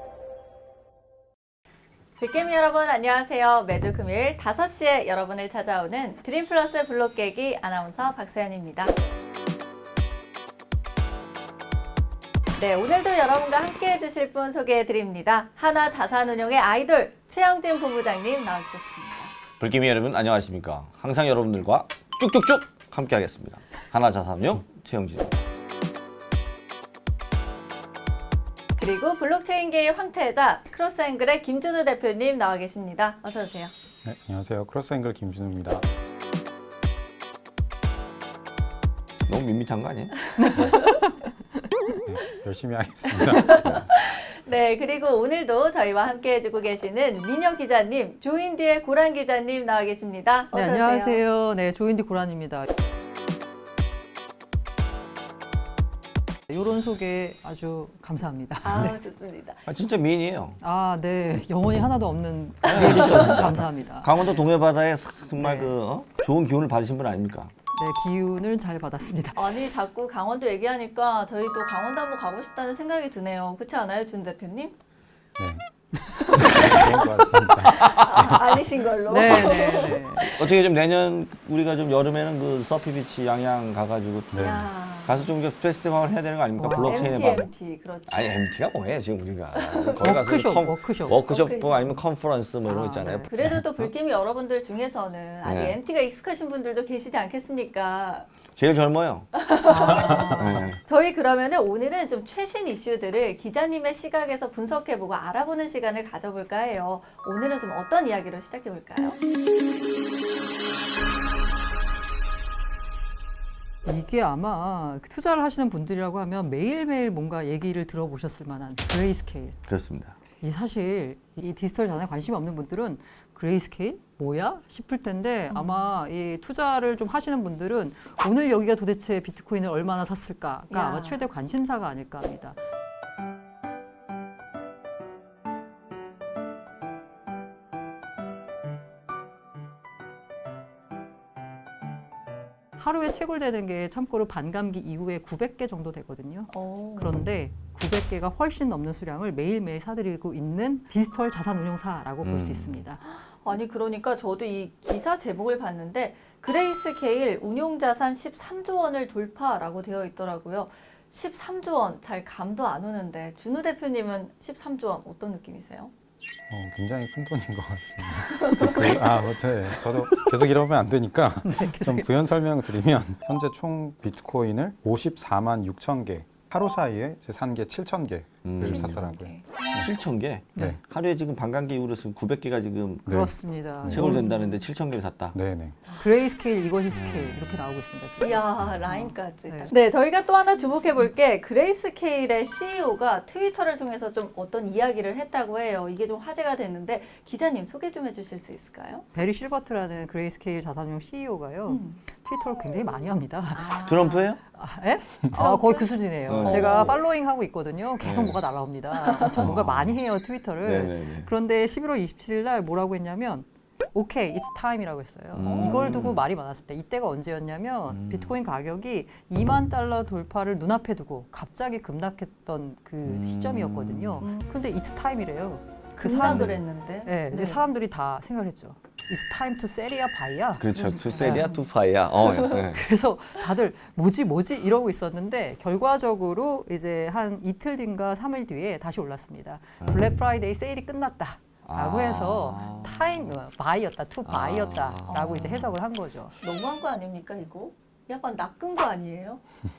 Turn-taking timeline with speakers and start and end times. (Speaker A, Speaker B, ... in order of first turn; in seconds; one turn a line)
Speaker A: 2.2-8.9
Speaker A: 12.6-19.3
Speaker B: 19.6-25.4
Speaker A: 28.8-33.7
Speaker C: 34.0-35.9
Speaker B: 39.3-40.2
Speaker D: 40.4-41.3
Speaker A: 40.4-41.1
Speaker C: 42.0-43.9
Speaker A: 43.2-51.2
Speaker D: 50.5-52.7
Speaker D: 56.5-59.0
Speaker A: 58.6-59.6
Speaker B: 59.7-60.6
Speaker D: 60.6-64.3
Speaker A: 62.6-63.0
Speaker B: 62.7-67.5
Speaker D: 65.4-65.8
Speaker D: 67.7-69.7
Speaker A: 69.3-74.8
Speaker C: 75.4-75.6
Speaker D: 76.1-76.7
Speaker C: 76.3-78.4
Speaker A: 76.6-77.1
Speaker A: 77.8-80.2
Speaker D: 79.1-80.3
Speaker B: 80.2-84.5
Speaker C: 84.3-84.7
Speaker A: 84.4-85.3
Speaker B: 85.0-87.5
Speaker D: 86.6-87.1
Speaker A: 86.8-88.5
Speaker B: 88.1-93.3
Speaker A: 89.6-90.1
Speaker D: 90.0-91.2
Speaker A: 91.1-92.0
Speaker D: 92.6-93.3
Speaker A: 93.1-98.4
Speaker C: 93.4-93.9
Speaker B: 95.5-95.8
Speaker B: 98.5-99.3
Speaker A: 99.3-109.2
Speaker D: 99.7-100.6
Speaker B: 100.1-100.8
Speaker D: 113.9-119.6
Speaker B: 119.7-120.2
Speaker D: 120.4-132.6
Speaker A: 125.5-125.9
Speaker A: 130.7-131.2
Speaker D: 142.8-153.0
Speaker A: 146.5-147.2
Speaker B: 152.2-152.8
Speaker A: 153.0-165.9
Speaker C: 166.5-179.9
Speaker A: 168.4-169.0
Speaker D: 171.4-172.1
Speaker B: 178.4-179.0
Speaker A: 178.6-179.6
Speaker B: 179.8-183.1
Speaker C: 183.1-184.1
Speaker D: 183.1-184.3
Speaker B: 183.9-185.4
Speaker A: 184.0-184.5
Speaker C: 185.3-185.8
Speaker D: 186.0-189.7
Speaker B: 186.9-187.6
Speaker A: 188.2-199.1
Speaker D: 199.1-203.9
Speaker A: 201.7-202.0
Speaker A: 203.6-204.4
Speaker B: 203.8-204.4
Speaker D: 204.5-231.5
Speaker A: 205.2-207.0
Speaker B: 206.3-207.0
Speaker B: 208.0-208.4
Speaker A: 209.0-209.5
Speaker B: 209.4-210.0
Speaker B: 210.6-211.3
Speaker B: 215.3-216.2
Speaker A: 215.5-216.0
Speaker B: 217.9-218.4
Speaker B: 223.1-224.2
Speaker A: 224.2-224.5
Speaker A: 226.0-227.6
Speaker B: 226.2-226.6
Speaker B: 230.6-232.9
Speaker A: 230.7-231.6
Speaker D: 232.7-246.3
Speaker B: 239.8-240.2
Speaker B: 241.7-243.4
Speaker B: 244.3-245.8
Speaker A: 245.1-245.7
Speaker A: 246.4-249.4